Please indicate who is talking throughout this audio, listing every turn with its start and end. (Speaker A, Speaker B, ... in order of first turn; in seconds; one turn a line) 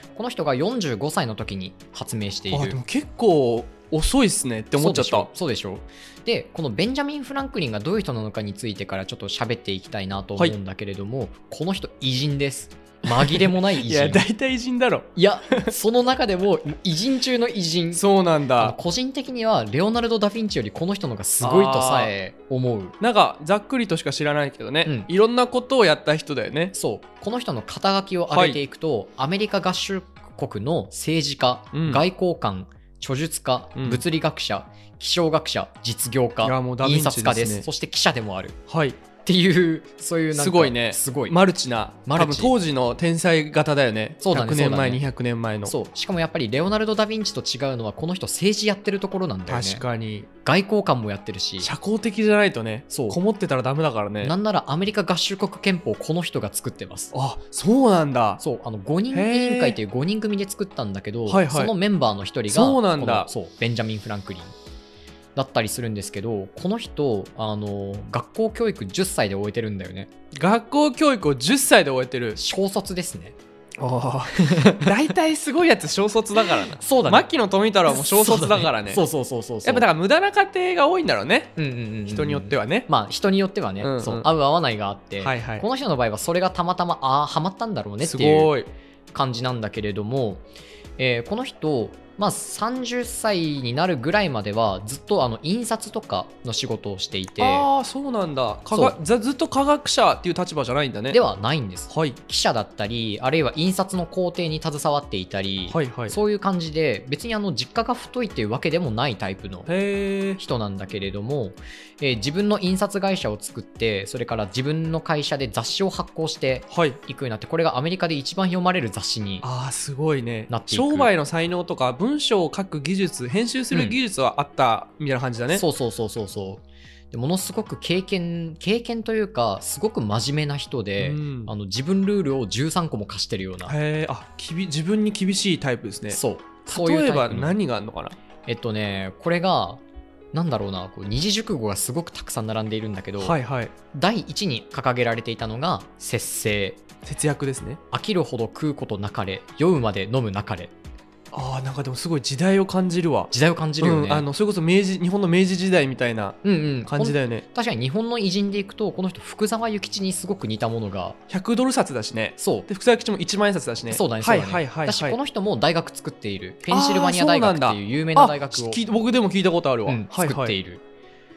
Speaker A: 0.1-2.8
Speaker B: 2.5-5.3
Speaker A: 4.8-14.2
Speaker B: 13.1-15.7
Speaker A: 15.2-18.0
Speaker B: 17.9-18.8
Speaker A: 18.6-22.9
Speaker B: 21.4-22.1
Speaker B: 23.0-26.7
Speaker A: 26.8-38.6
Speaker B: 28.3-28.6
Speaker B: 31.7-32.0
Speaker B: 33.8-34.0
Speaker B: 36.4-37.7
Speaker B: 38.7-39.0
Speaker A: 39.2-41.4
Speaker B: 40.3-45.7
Speaker A: 42.0-42.5
Speaker A: 44.2-45.1
Speaker A: 45.6-49.8
Speaker B: 49.5-50.3
Speaker A: 50.4-51.7
Speaker B: 51.6-54.3
Speaker A: 52.9-53.2
Speaker A: 54.2-57.1
Speaker B: 57.1-58.4
Speaker A: 58.4-64.5
Speaker B: 59.1-59.8
Speaker B: 61.3-61.7
Speaker B: 62.5-63.3
Speaker A: 65.4-70.1
Speaker B: 70.3-72.4
Speaker A: 72.3-73.4
Speaker B: 73.8-79.0
Speaker A: 74.3-74.9
Speaker A: 76.6-77.3
Speaker A: 77.9-79.9
Speaker B: 79.6-81.5
Speaker A: 81.6-88.5
Speaker B: 82.1-82.9
Speaker B: 83.8-84.3
Speaker B: 85.2-85.6
Speaker B: 88.0-88.7
Speaker A: 89.1-90.4
Speaker A: 91.0-97.7
Speaker B: 97.4-101.2
Speaker A: 101.1-109.7
Speaker B: 101.9-102.2
Speaker B: 105.7-106.2
Speaker B: 109.7-110.4
Speaker A: 110.4-119.5
Speaker B: 116.7-117.0
Speaker B: 119.4-125.6
Speaker A: 120.5-121.1
Speaker A: 125.5-133.8
Speaker B: 131.0-131.5
Speaker B: 133.7-138.2
Speaker A: 136.1-137.6
Speaker A: 138.4-139.8
Speaker A: 140.3-143.4
Speaker B: 143.2-143.7
Speaker A: 143.9-146.8
Speaker B: 147.1-147.8
Speaker A: 147.9-150.7
Speaker B: 151.3-157.4
Speaker A: 153.3-154.3
Speaker A: 156.4-161.2
Speaker B: 161.3-165.2
Speaker A: 162.4-162.7
Speaker A: 163.9-168.8
Speaker B: 166.7-170.6
Speaker A: 169.9-170.8